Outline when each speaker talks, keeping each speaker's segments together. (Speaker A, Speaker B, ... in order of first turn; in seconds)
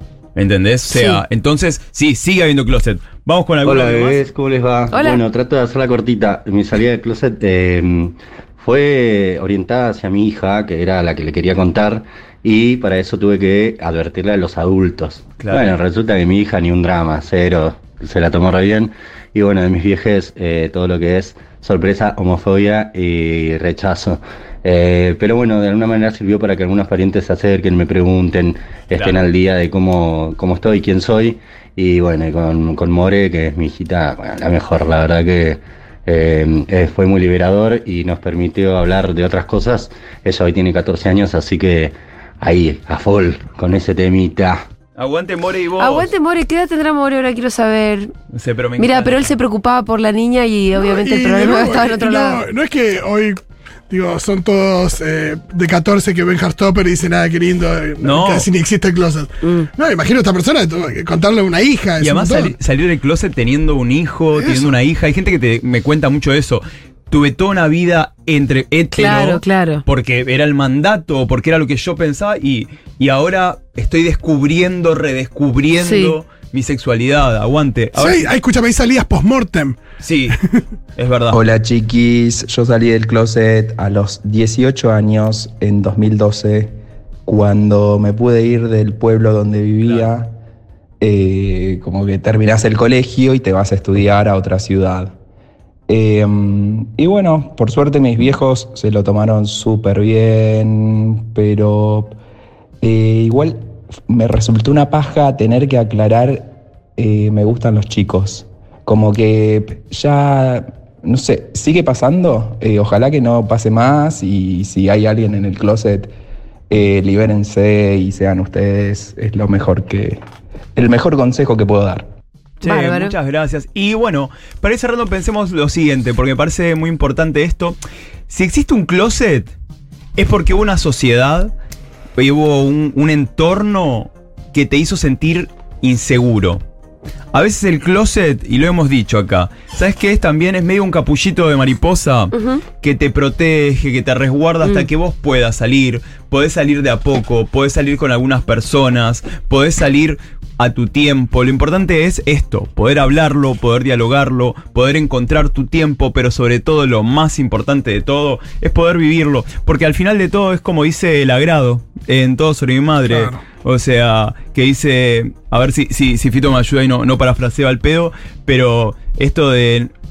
Speaker A: 0.3-4.2, 15.4-15.7, 45.0-46.1, 48.3-49.3, 58.0-58.5, 62.0-78.3, 80.0-80.4, 80.9-81.4, 122.6-127.8, 128.3-129.5, 130.2-131.5, 132.2-136.6, 137.3-169.9
Speaker B: 0.9-1.2, 4.9-5.2, 45.7-48.1, 48.8-52.4, 59.4-59.7, 68.9-69.8, 75.7-76.2, 122.6-123.1, 142.3-142.6
Speaker C: 3.6-44.6
Speaker D: 50.7-53.4, 53.9-62.5, 64.3-64.8, 77.9-79.8, 163.1-163.4
Speaker E: 81.3-86.7, 87.2-90.3, 91.0-95.1, 95.9-102.1, 102.8-116.1, 116.7-120.2, 120.8-122.1